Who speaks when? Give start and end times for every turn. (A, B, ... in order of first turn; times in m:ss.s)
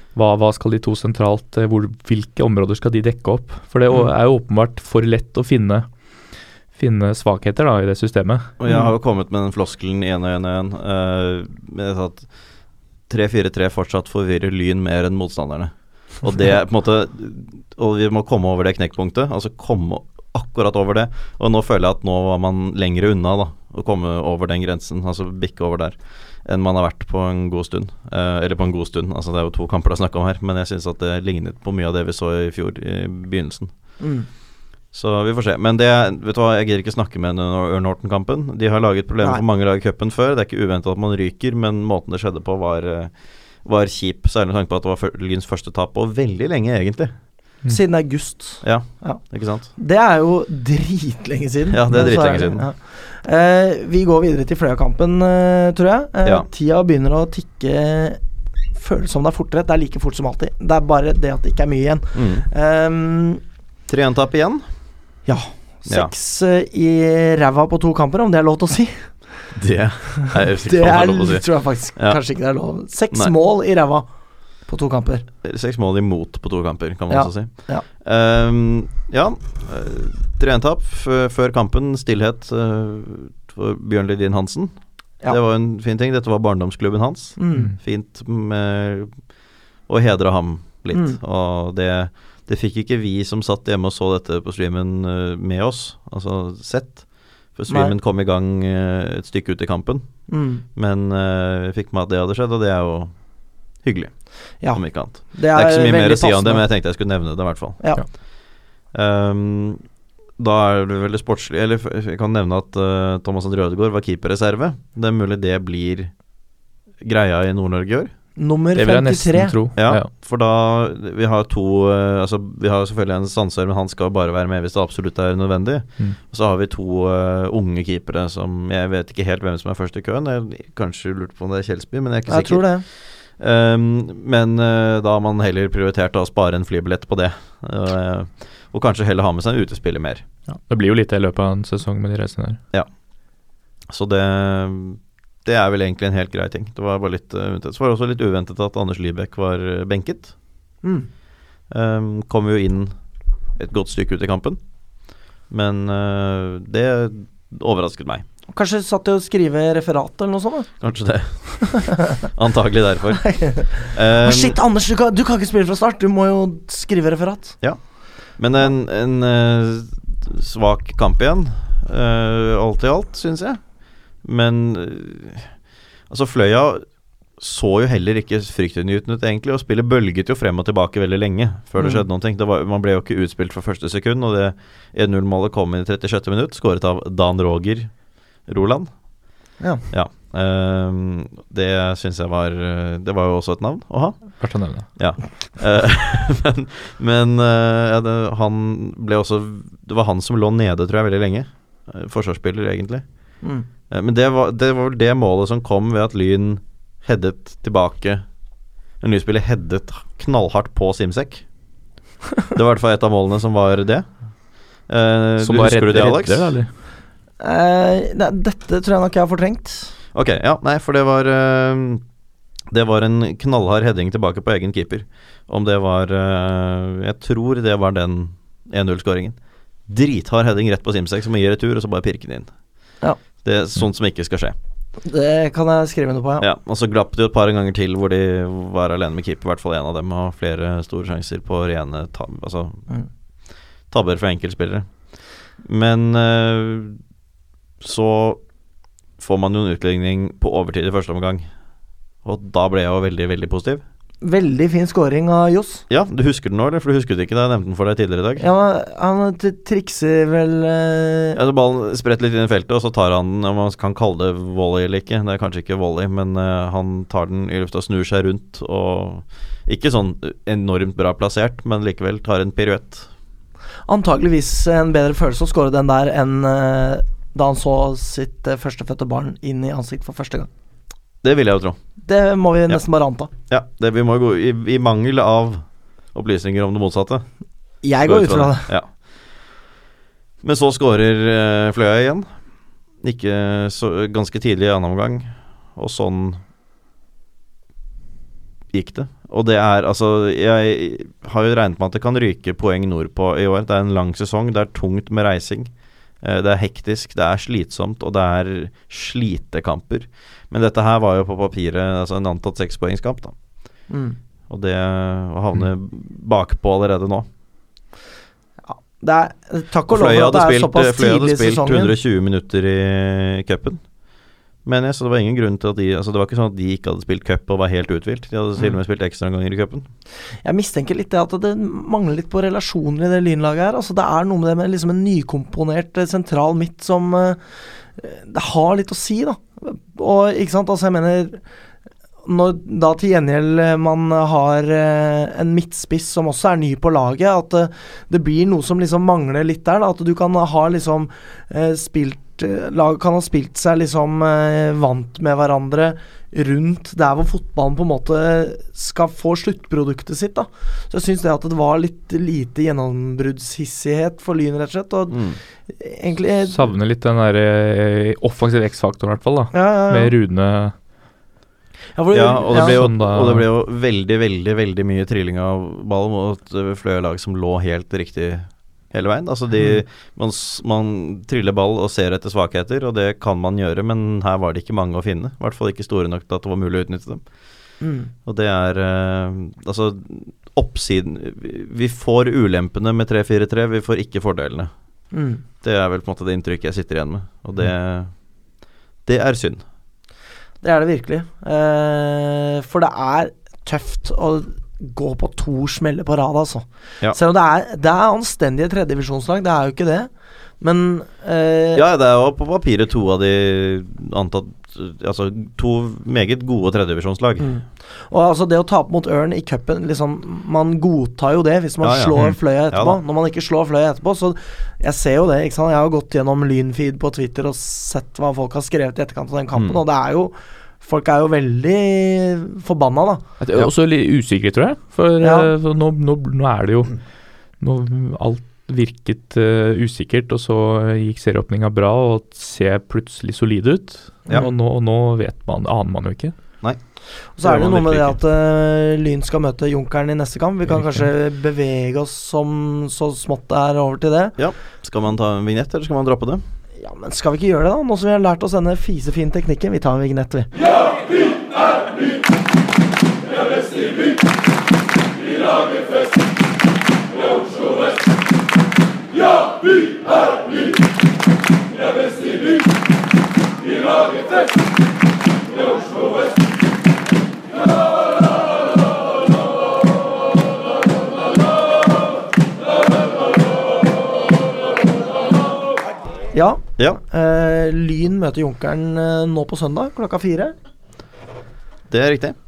0:00.2-0:05.9 A
0:06.8-0:08.5 A
0:08.6-0:12.3 B
0:13.1-0:33.7 B
0:34.0-0:34.3 C
0:34.9-0:43.1 B
0:43.6-0:47.1 B
0:47.7-0:49.2 C
0:48.6-0:49.7 B
0:49.8-0:58.2 C
0:51.7-0:52.7 B
0:58.8-1:03.4 C
1:02.2-1:02.5 B
1:03.9-1:04.6 B
1:05.3-1:09.1 C
1:05.9-1:06.1 B
1:09.6-1:11.4 B
1:10.3-1:14.1 C
1:14.7-1:15.3 C
1:15.4-1:24.8 B
1:17.1-1:17.8 C
1:25.3-1:29.1 B
1:27.4-1:27.7 C
1:29.9-1:40.2 B
1:30.9-1:31.2 C
1:37.7-1:38.0 C
1:40.3-1:40.6 C
1:40.7-1:43.1 B
1:43.8-1:47.8 B
1:44.6-1:46.6 C
1:48.9-1:49.8 B
1:50.4-1:56.1 B
1:57.0-1:58.1 B
1:58.4-1:59.6 C
1:58.8-2:00.1 A
1:59.8-2:12.7 B
2:12.3-2:12.8 C
2:13.4-2:20.2 B
2:20.5-2:22.6 A
2:23.9-2:30.3 B
2:30.8-2:31.1 C
2:31.7-2:32.9 B
2:33.6-2:34.6 B
2:35.5-2:38.2 B
2:38.5-2:40.7 C
2:40.8-2:44.6 B
2:41.7-2:42.2 C
2:43.2-2:47.6 C
2:48.4-2:53.6 B
2:54.2-2:55.5 B
2:56.1-2:56.8 B
2:57.4-3:07.9 B
3:01.8-3:02.0 C
3:08.5-3:08.9 B
3:09.6-3:09.8 C
3:09.9-3:23.0 B
3:14.4-3:14.9 A
3:23.4-3:23.7 C
3:23.9-3:28.2 B
3:29.0-3:31.4 B
3:32.5-3:34.1 B
3:34.9-3:36.5 B
3:35.4-3:36.7 A
3:37.4-3:39.9 C
3:40.1-3:42.0 B
3:42.7-3:52.5 B
3:53.4-3:54.6 B
3:55.0-3:56.5 C
3:56.4-4:02.8 B
4:03.9-4:04.9 B
4:05.6-4:07.0 B
4:07.8-4:08.4 B
4:09.2-4:11.5 B
4:12.2-4:13.8 B
4:14.2-4:15.8 C
4:15.9-4:18.5 B
4:18.4-4:21.4 C
4:21.4-4:33.1 B
4:33.9-4:40.5 C
4:41.2-4:41.8 B
4:42.1-4:43.3 C
4:43.5-4:47.2 B
4:47.8-4:48.7 C
4:48.0-4:48.9 B
4:50.4-4:52.3 B
4:53.0-4:56.4 B
4:58.7-5:05.7 B
5:06.2-5:13.3 B
5:13.9-5:14.2 C
5:14.5-5:17.3 B
5:18.7-5:22.0 C
5:19.9-5:23.8 B
5:24.6-5:29.9 B
5:30.4-5:37.4 C
5:38.0-5:41.4 C
5:42.2-6:06.6 C
6:05.1-6:05.4 B
6:06.5-6:10.7 A
6:09.5-6:10.1 C
6:12.0-6:12.8 C
6:12.1-6:27.2 B
6:12.5-6:13.5 A
6:27.8-6:28.1 C
6:28.2-6:34.7 B
6:35.1-6:35.4 C
6:35.6-6:38.1 B
6:39.1-6:39.6 B
6:40.6-6:50.1 C
6:50.6-6:51.8 C
6:51.7-6:57.5 B
6:57.4-7:13.2 C
7:01.8-7:03.0 B
7:09.6-7:09.8 B
7:13.4-7:17.0 A
7:15.2-7:15.5 C
7:17.6-7:26.4 A
7:27.4-7:34.4 C
7:27.4-7:28.2 B
7:34.4-7:36.4 B
7:36.8-7:40.5 C
8:06.3-8:10.5 C
8:11.9-8:12.4 B